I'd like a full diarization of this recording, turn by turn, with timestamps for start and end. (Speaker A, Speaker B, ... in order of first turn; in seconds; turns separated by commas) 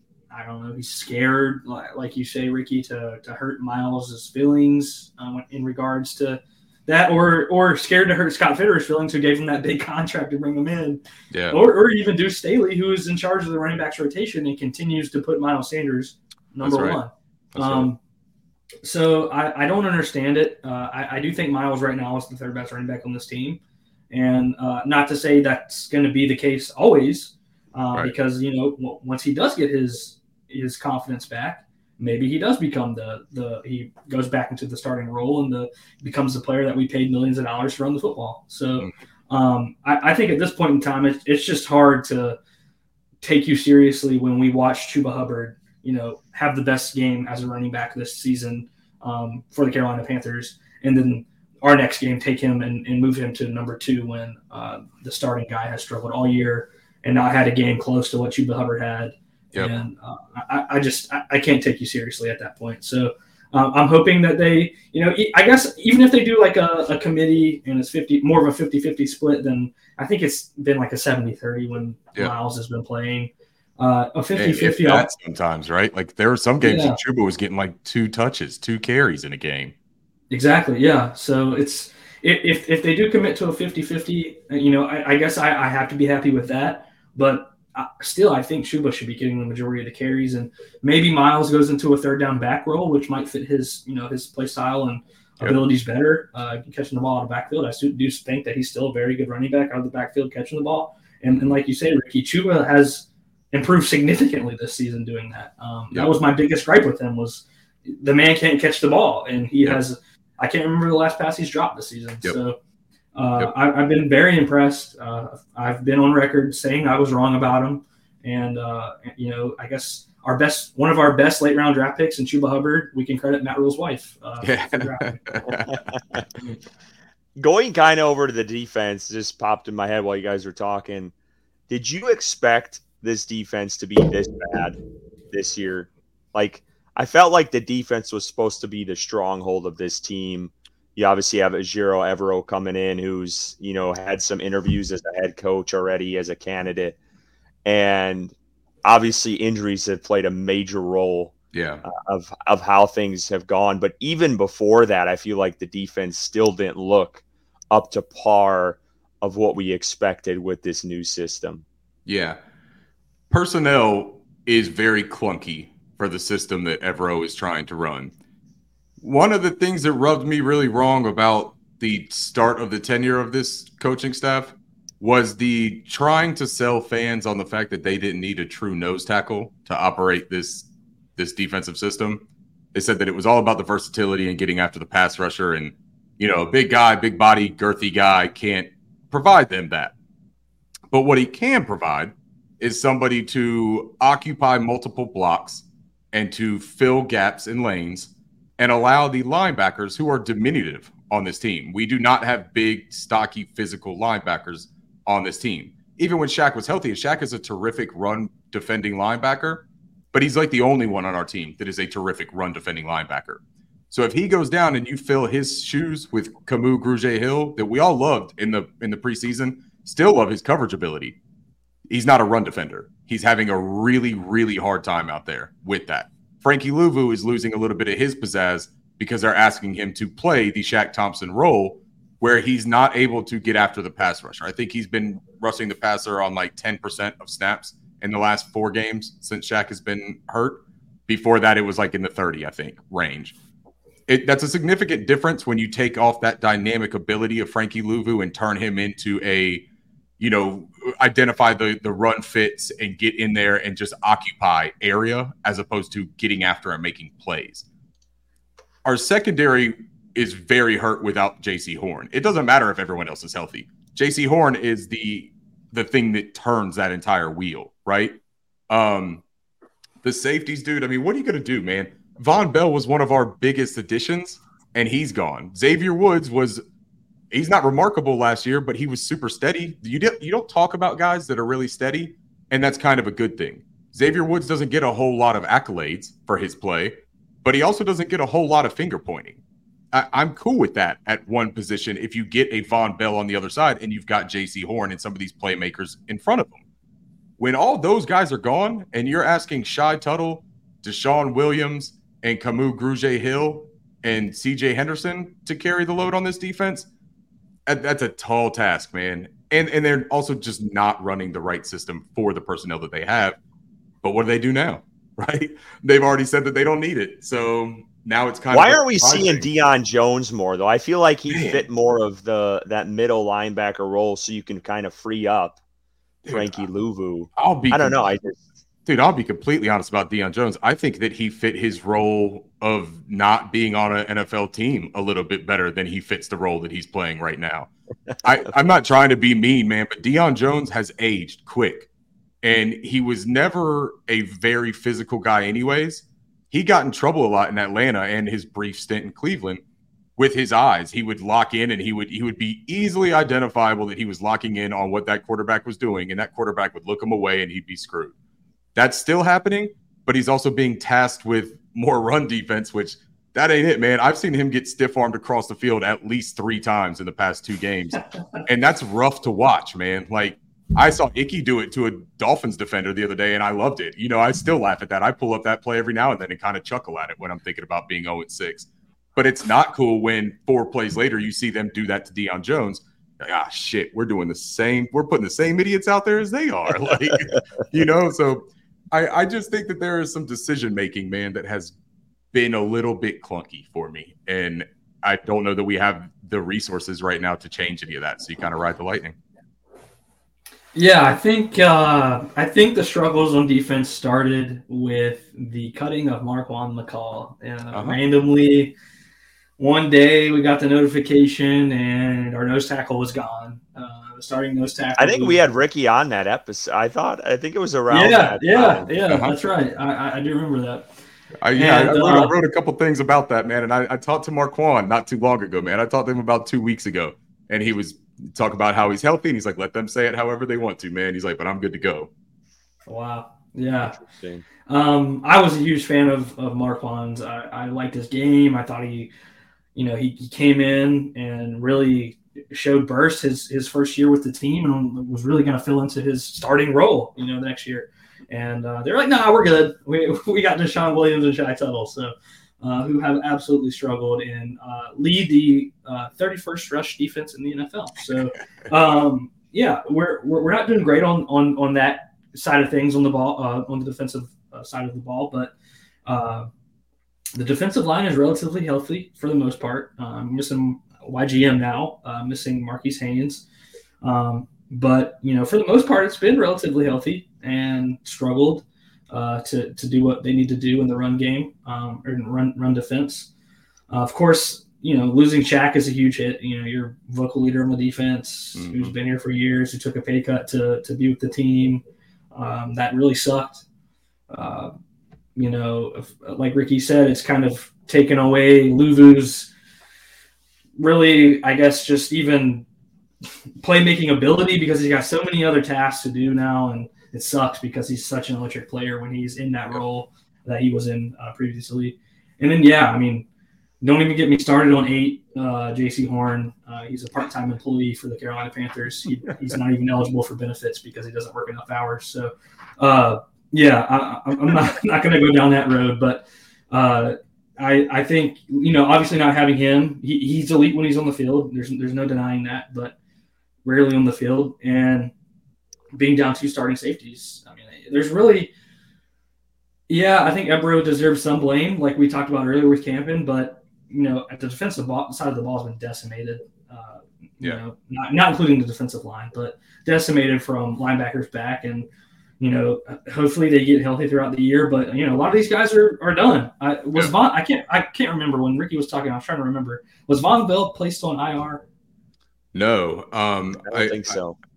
Speaker A: 0.3-18.0, Speaker B: 11.3-11.6, Speaker B: 16.6-17.0, Speaker B: 17.5-17.9, Speaker A: 18.8-23.6, Speaker A: 24.1-42.4, Speaker A: 43.2-75.1, Speaker B: 74.3-79.7, Speaker A: 76.6-77.0, Speaker A: 80.3-112.6, Speaker A: 113.2-125.2, Speaker B: 124.4-126.2, Speaker C: 127.4-131.1, Speaker C: 131.7-134.8, Speaker C: 135.3-147.0, Speaker C: 147.7-161.7, Speaker B: 151.5-151.8, Speaker B: 162.1-162.4, Speaker B: 163.3-168.1, Speaker B: 169.0-189.9, Speaker B: 190.9-221.2, Speaker B: 221.9-243.4, Speaker B: 244.1-249.7, Speaker B: 250.2-257.7, Speaker B: 258.9-268.2, Speaker B: 268.7-269.2, Speaker B: 270.0-276.6, Speaker B: 277.3-289.4, Speaker B: 289.9-296.6, Speaker B: 297.4-306.9, Speaker B: 307.7-313.4, Speaker B: 314.0-319.5, Speaker C: 318.5-325.6, Speaker B: 321.3-321.6, Speaker B: 326.2-326.6, Speaker C: 326.3-328.4, Speaker B: 327.4-328.1, Speaker B: 328.9-337.7, Speaker B: 338.2-341.9, Speaker B: 342.4-349.6, Speaker B: 350.2-358.1, Speaker B: 358.8-391.8, Speaker B: 392.3-399.2, Speaker A: 400.8-408.8, Speaker B: 407.7-408.0, Speaker A: 409.6-415.4, Speaker C: 415.0-418.9, Speaker A: 417.9-420.9, Speaker B: 419.1-419.4, Speaker B: 421.4-432.1, Speaker A: 421.5-422.4, Speaker A: 432.9-434.0, Speaker C: 433.8-434.4, Speaker A: 434.7-439.1, Speaker A: 439.8-465.5, Speaker A: 466.1-466.5, Speaker A: 467.4-473.5, Speaker A: 474.0-483.3, Speaker A: 483.9-491.8, Speaker B: 488.6-488.9, Speaker A: 492.3-493.6, Speaker A: 494.3-494.7, Speaker A: 495.4-499.5, Speaker A: 500.8-502.7, Speaker A: 503.6-513.3, Speaker A: 513.8-533.0, Speaker A: 533.6-535.1, Speaker A: 535.9-538.5, Speaker A: 539.9-551.9, Speaker A: 552.4-561.6, Speaker B: 562.5-564.2, Speaker C: 563.7-564.4